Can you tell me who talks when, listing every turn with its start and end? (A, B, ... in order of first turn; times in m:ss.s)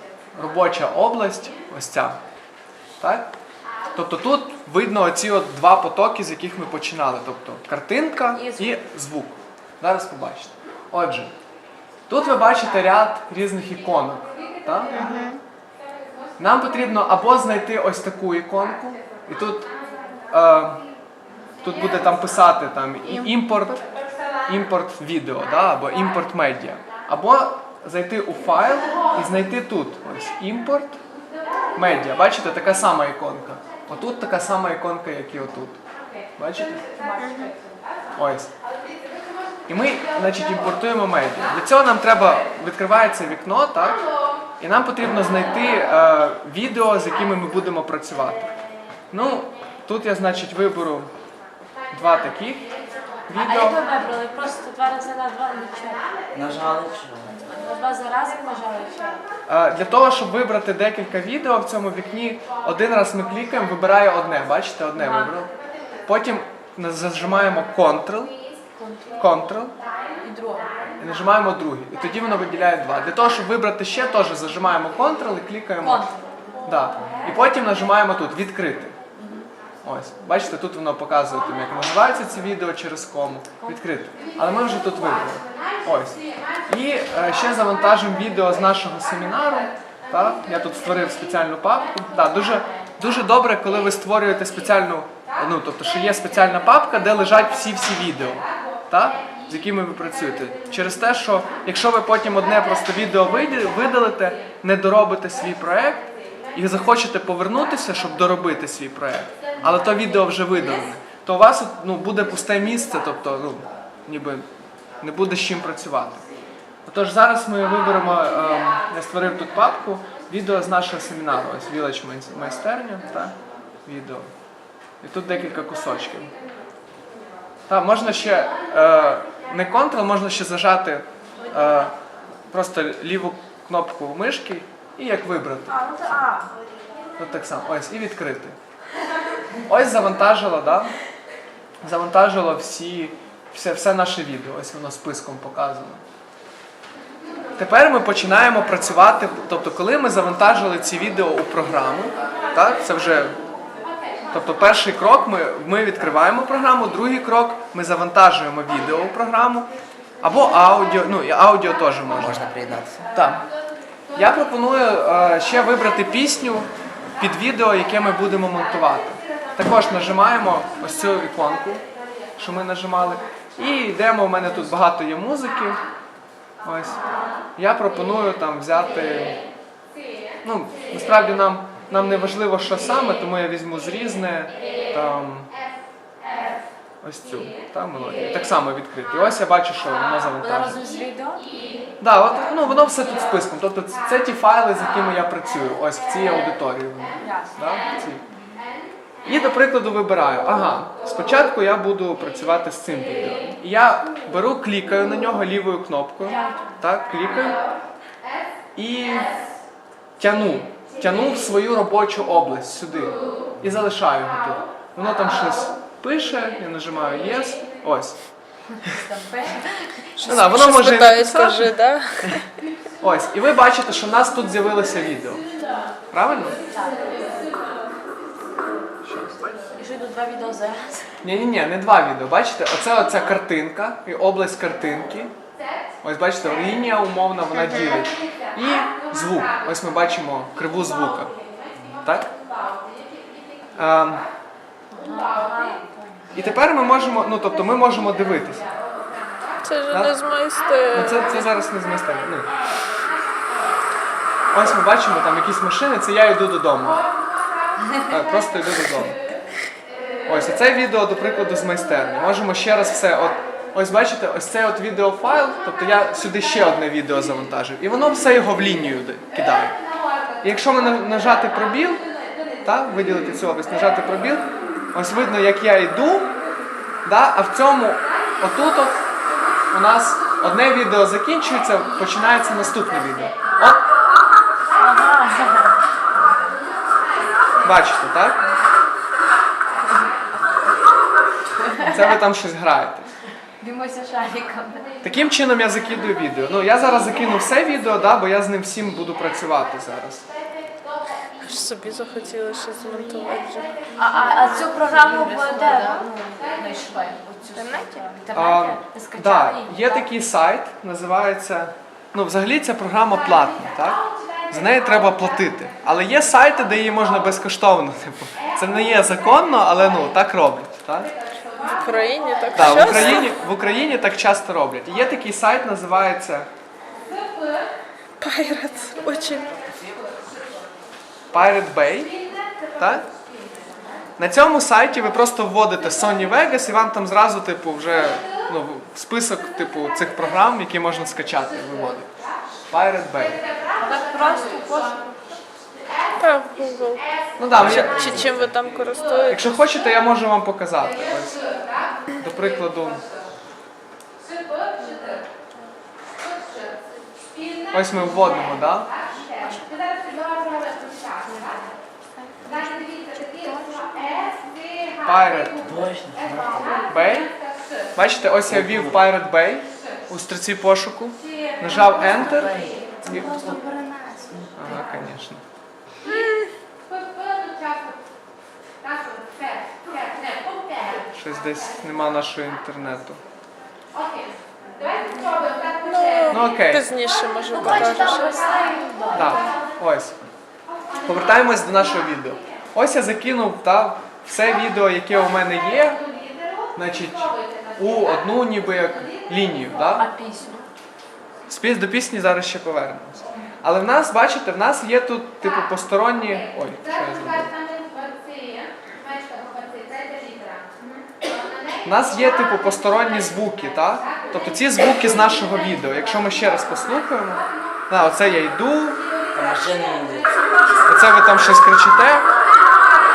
0:00.4-0:02.2 A
0:03.0-0:03.3 A
0:03.9-0:11.3 A
0:08.3-0:08.8 B
0:12.1-0:15.2 A
0:16.4-0:19.7 A
0:20.3-0:20.8 A
0:21.6-0:23.9 A
0:24.5-0:31.0 A
0:31.8-0:35.8 A
0:36.4-0:36.8 A
0:37.0-0:37.5 B
0:37.2-0:37.5 C
0:38.2-0:38.5 A
0:39.7-0:44.0 A
0:44.6-0:48.5 A
0:49.1-0:51.1 A
0:51.9-0:52.7 A
0:53.3-0:53.8 A
0:53.4-0:56.6 B
0:56.3-0:57.4 D
0:57.4-0:59.3 B
0:59.5-1:05.5 A
1:05.0-1:05.4 B
1:06.1-1:08.4 A
1:08.8-1:09.3 B
1:09.2-1:09.7 A
1:10.2-1:10.8 B
1:11.0-1:16.1 A
1:15.8-1:16.4 B
1:16.6-1:19.0 A
1:19.2-1:19.5 B
1:19.8-1:54.5 A
1:55.0-1:56.2 A
1:56.9-2:04.3 A
2:05.0-2:06.3 A
2:07.7-2:11.9 A
2:11.4-2:11.9 B
2:12.5-2:15.8 A
2:15.7-2:16.5 B
2:17.2-2:18.6 A
2:19.7-2:20.9 A
2:21.8-2:26.0 A
2:27.6-2:33.4 A
2:34.3-2:39.7 A
2:40.2-2:42.5 A
2:42.1-2:43.1 D
2:43.1-2:43.4 A
2:44.2-2:51.8 A
2:52.4-2:55.8 A
2:56.6-2:57.0 A
2:57.6-2:59.4 A
3:00.4-3:05.5 A
3:07.0-3:10.8 A
3:10.4-3:11.8 B
3:12.0-3:18.2 A
3:17.2-3:17.9 B
3:19.2-3:27.6 A
3:26.2-3:26.8 B
3:28.8-3:29.3 A
3:30.2-3:38.2 A
3:38.8-3:40.1 B
3:40.2-3:42.5 C
3:40.3-3:42.4 A
3:43.0-3:45.5 A
3:45.6-3:46.0 B
3:46.1-3:46.6 A
3:46.6-3:47.8 B
3:49.0-3:49.5 A
3:49.7-3:51.1 B
3:51.2-3:55.3 A
3:56.0-4:01.3 A
4:01.8-4:02.0 D
4:02.0-4:02.3 A
4:03.8-4:04.3 A
4:04.9-4:06.4 B
4:06.3-4:08.7 A
4:09.6-4:11.5 C
4:09.9-4:10.2 A
4:10.9-4:12.5 A
4:14.5-4:17.0 A
4:18.1-4:19.2 A
4:20.3-4:29.8 A
4:30.4-4:32.0 A
4:32.6-4:36.4 A
4:37.0-4:39.1 A
4:39.7-4:43.8 A
4:44.8-4:45.8 B
4:47.6-4:48.4 A
4:51.6-4:52.1 B
4:51.8-4:53.1 A
4:53.6-4:54.9 B
4:55.0-5:00.3 A
5:01.4-5:03.7 C
5:04.0-5:10.1 B
5:05.0-5:05.9 C
5:07.6-5:08.0 C
5:08.3-5:21.1 A
5:21.7-5:23.3 C
5:22.6-5:26.5 A
5:28.2-5:29.5 C
5:31.3-5:32.2 A
5:32.8-5:33.0 A
5:34.2-5:42.1 A
5:42.7-5:43.4 A
5:43.8-5:45.2 B
5:46.2-5:47.0 C
5:47.4-5:48.2 A
5:47.5-5:48.7 D
5:47.6-5:49.6 C
5:49.3-5:51.4 A
5:52.1-5:53.0 A
5:54.8-5:55.2 B
5:57.7-5:58.9 A
6:05.0-6:05.6 A
6:05.6-6:06.8 D
6:06.9-6:07.3 A
6:08.0-6:13.3 A
6:08.4-6:09.0 D
6:11.9-6:14.5 D
6:14.6-6:15.4 A
6:16.1-6:16.5 C
6:21.1-6:23.2 A
6:25.8-6:28.3 C
6:26.3-6:26.8 A
6:27.5-6:29.5 B
6:27.6-6:28.1 A
6:29.1-6:30.2 A
6:29.2-6:29.5 C
6:31.0-6:36.0 A
6:36.8-6:40.1 A
6:40.0-6:40.7 B
6:41.5-6:47.6 A
6:51.8-6:59.0 A
6:59.3-7:00.3 D
7:00.9-7:02.3 A